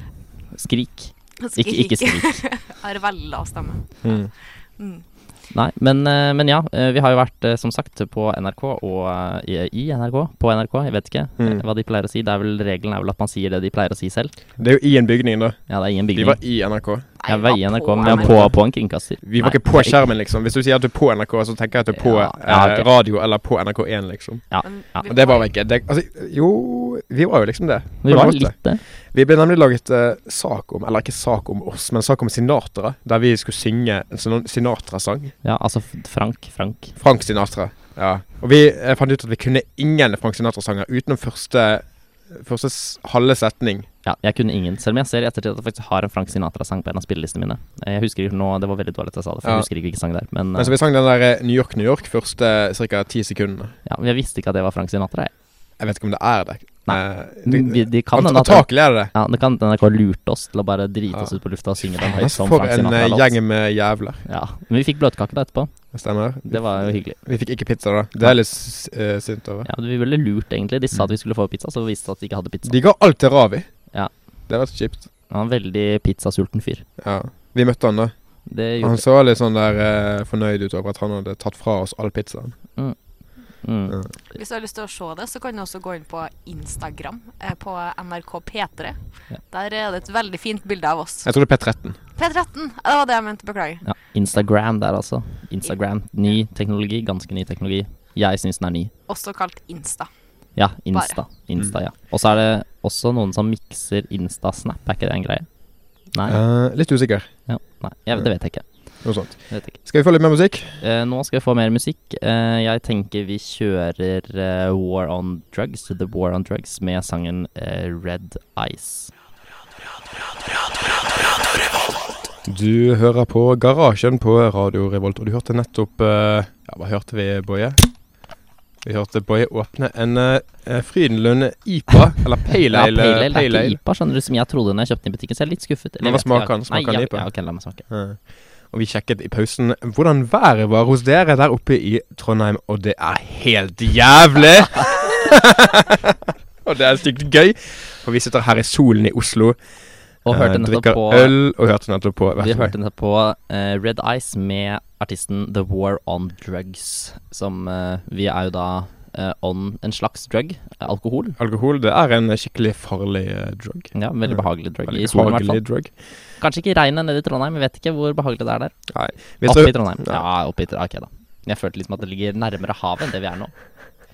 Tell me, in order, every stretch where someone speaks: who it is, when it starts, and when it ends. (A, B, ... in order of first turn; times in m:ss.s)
0:00.5-0:02.4 A
0:01.4-0:04.2 B
0:04.0-0:04.3 C
0:04.8-0:05.0 B
0:05.5-0:14.4 A
0:11.4-0:11.6 C
0:14.6-0:17.1 C
0:15.7-0:16.4 A
0:17.2-0:18.5 B
0:17.2-0:20.1 A
0:18.0-0:18.6 C
0:19.2-0:24.5 C
0:21.9-0:22.9 A
0:24.5-0:25.1 A
0:24.6-0:25.5 B
0:25.0-0:35.3 C
0:28.0-0:28.8 A
0:35.4-0:37.0 A
0:37.0-0:43.9 C
0:44.0-0:50.8 A
0:50.6-0:53.7 C
0:53.8-0:55.3 A
0:55.8-0:59.1 C
0:56.8-1:03.4 A
1:01.1-1:04.2 C
1:04.2-1:05.9 A
1:05.9-1:09.7 C
1:06.4-1:07.2 A
1:09.6-1:12.8 A
1:12.6-1:13.9 C
1:14.5-1:15.1 C
1:15.3-1:16.9 A
1:17.0-1:18.1 C
1:18.4-1:19.0 A
1:18.8-1:22.5 C
1:23.6-1:24.0 A
1:24.3-1:29.0 B
1:29.5-1:31.3 B
1:31.2-1:32.0 C
1:32.2-1:33.8 B
1:33.8-1:38.9 A
1:39.1-1:40.1 B
1:40.6-1:45.5 A
1:46.1-1:46.4 A
1:46.2-1:47.3 C
1:47.5-1:49.8 A
1:49.0-1:50.8 C
1:50.8-1:59.1 A
2:02.4-2:07.9 C
2:08.8-2:13.8 C
2:12.7-2:17.8 A
2:16.0-2:29.6 C
2:30.2-2:31.4 A
2:30.3-2:32.7 C
2:32.4-2:41.4 A
2:41.4-2:45.9 C
2:43.9-2:45.6 A
2:46.4-2:48.7 A
2:48.9-2:50.2 C
2:49.4-2:53.5 A